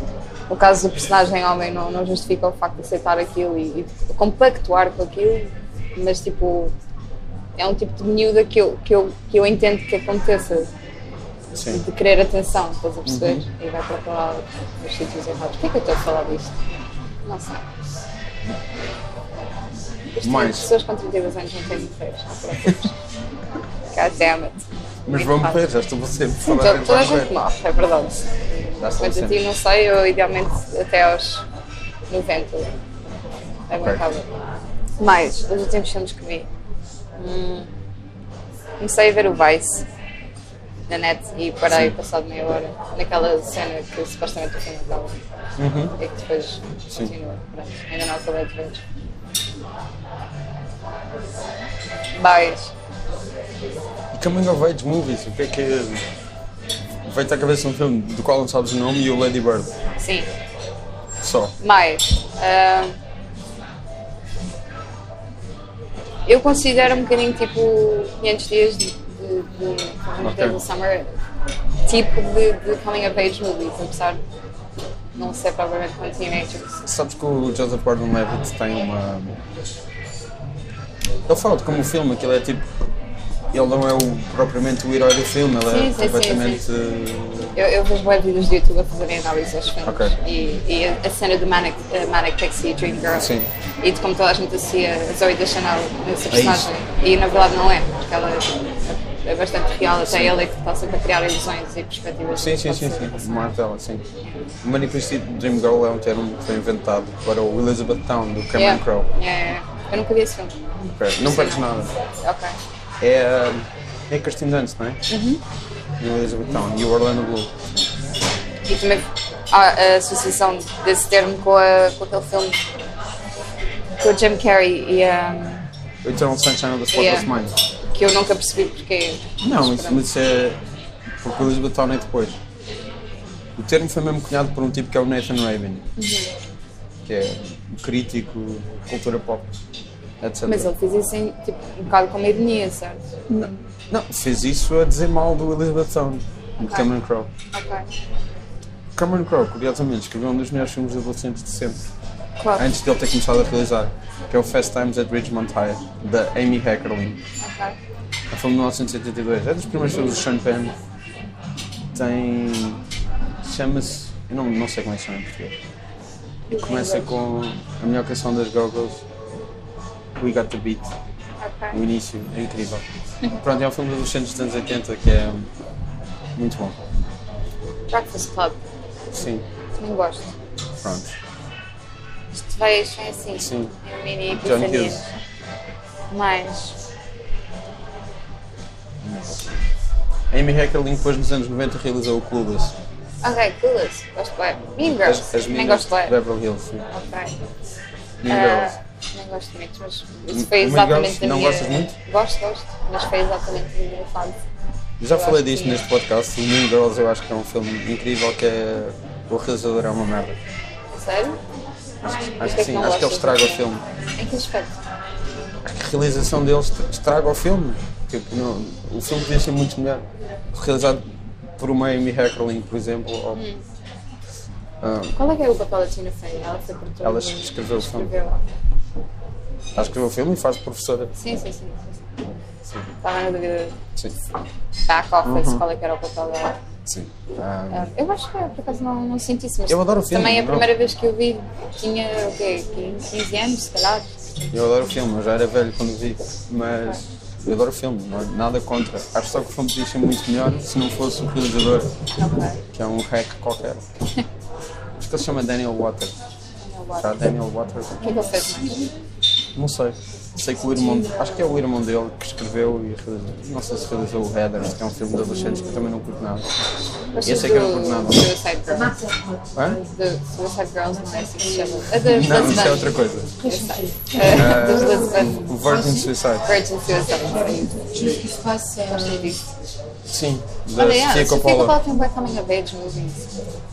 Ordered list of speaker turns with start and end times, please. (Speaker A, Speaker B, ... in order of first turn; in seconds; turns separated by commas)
Speaker A: 0.5-6.7, Speaker A: 7.6-10.7, Speaker B: 11.5-11.8, Speaker A: 11.7-16.7, Speaker B: 13.1-13.4, Speaker A: 17.3-17.6, Speaker A: 20.1-22.9, Speaker B: 20.2-20.7, Speaker A: 23.9-25.6, Speaker B: 25.1-27.4, Speaker A: 26.5-28.2, Speaker B: 28.8-29.4, Speaker A: 29.0-31.4, Speaker A: 32.1-32.7, Speaker A: 33.7-34.3, Speaker A: 35.0-36.5, Speaker A: 37.2-37.7, Speaker A: 38.8-39.9, Speaker A: 40.9-45.2, Speaker B: 45.6-46.0, Speaker A: 46.0-48.8, Speaker A: 52.1-52.7, Speaker B: 54.1-56.0, Speaker B: 57.0-59.7, Speaker A: 60.0-60.3, Speaker B: 61.2-61.5, Speaker A: 61.6-63.0, Speaker A: 66.3-71.1, Speaker B: 70.2-70.6, Speaker A: 71.9-74.2, Speaker A: 75.2-76.8, Speaker B: 76.8-79.4, Speaker B: 81.3-82.7, Speaker B: 83.5-87.6, Speaker A: 85.7-86.6, Speaker A: 87.5-103.4, Speaker B: 89.8-90.1, Speaker B: 93.1-93.5, Speaker B: 96.3-96.7, Speaker B: 100.0-100.4, Speaker B: 102.3-104.0, Speaker A: 104.2-104.5, Speaker B: 104.6-109.1, Speaker A: 108.5-110.5, Speaker B: 110.9-111.9, Speaker A: 111.2-111.7, Speaker A: 112.2-112.5, Speaker B: 113.0-115.0, Speaker A: 115.1-115.4, Speaker B: 116.0-117.5, Speaker A: 118.7-122.6, Speaker A: 124.0-125.7, Speaker B: 126.0-127.5, Speaker A: 126.9-127.3, Speaker A: 127.9-130.0, Speaker B: 129.4-130.6, Speaker B: 131.2-132.4, Speaker B: 133.6-135.9, Speaker A: 136.0-136.3, Speaker B: 137.1-139.5, Speaker B: 140.2-140.7, Speaker A: 140.4-143.0, Speaker B: 143.3-147.3, Speaker A: 146.6-146.9, Speaker A: 147.5-147.9, Speaker B: 149.0-151.8, Speaker A: 152.4-152.7, Speaker B: 152.6-157.2, Speaker A: 157.4-157.8, Speaker B: 158.3-160.8, Speaker B: 161.9-162.8, Speaker B: 163.4-165.6, Speaker A: 166.5-167.1, Speaker B: 166.7-169.0, Speaker B: 170.2-170.8, Speaker A: 171.4-171.8, Speaker B: 171.7-172.8, Speaker B: 173.4-175.5, Speaker B: 176.4-176.8, Speaker A: 177.9-178.6, Speaker B: 179.1-179.4, Speaker A: 179.8-180.3, Speaker B: 180.8-181.2, Speaker A: 182.4-185.1, Speaker B: 183.4-183.7, Speaker B: 184.3-185.1, Speaker A: 186.1-186.8, Speaker B: 189.0-189.5, Speaker B: 190.3-192.8, Speaker A: 193.2-196.2, Speaker B: 195.0-196.9, Speaker A: 196.9-197.4, Speaker B: 198.2-198.7, Speaker A: 198.3-204.4, Speaker B: 200.3-201.9, Speaker B: 205.0-210.4, Speaker A: 205.1-205.8, Speaker A: 210.9-211.4, Speaker B: 212.0-213.8, Speaker A: 212.4-214.7, Speaker B: 215.6-221.0, Speaker B: 221.6-223.4, Speaker A: 223.3-223.6, Speaker B: 224.8-225.2, Speaker A: 225.2-228.4, Speaker B: 227.0-228.1, Speaker B: 229.8-231.1, Speaker A: 231.2-232.3, Speaker A: 233.0-233.8, Speaker A: 234.9-236.6, Speaker B: 235.2-235.6, Speaker B: 236.9-237.9, Speaker A: 237.7-244.1, Speaker B: 239.7-240.7, Speaker B: 244.5-251.9, Speaker A: 252.2-252.6, Speaker B: 252.7-253.9, Speaker B: 255.0-256.1, Speaker A: 256.6-257.1, Speaker B: 257.0-258.0, Speaker A: 258.0-258.9, Speaker C: 258.4-258.9, Speaker B: 259.6-266.5, Speaker C: 260.8-261.5, Speaker A: 267.1-268.9, Speaker B: 267.2-268.3, Speaker C: 268.7-269.9, Speaker B: 269.5-269.8, Speaker A: 269.9-275.6, Speaker C: 270.9-272.7, Speaker B: 272.0-273.3, Speaker C: 273.3-276.1, Speaker B: 274.2-276.5, Speaker A: 276.4-278.1, Speaker C: 277.3-279.4, Speaker A: 278.9-279.4, Speaker B: 280.1-281.8, Speaker A: 280.7-283.3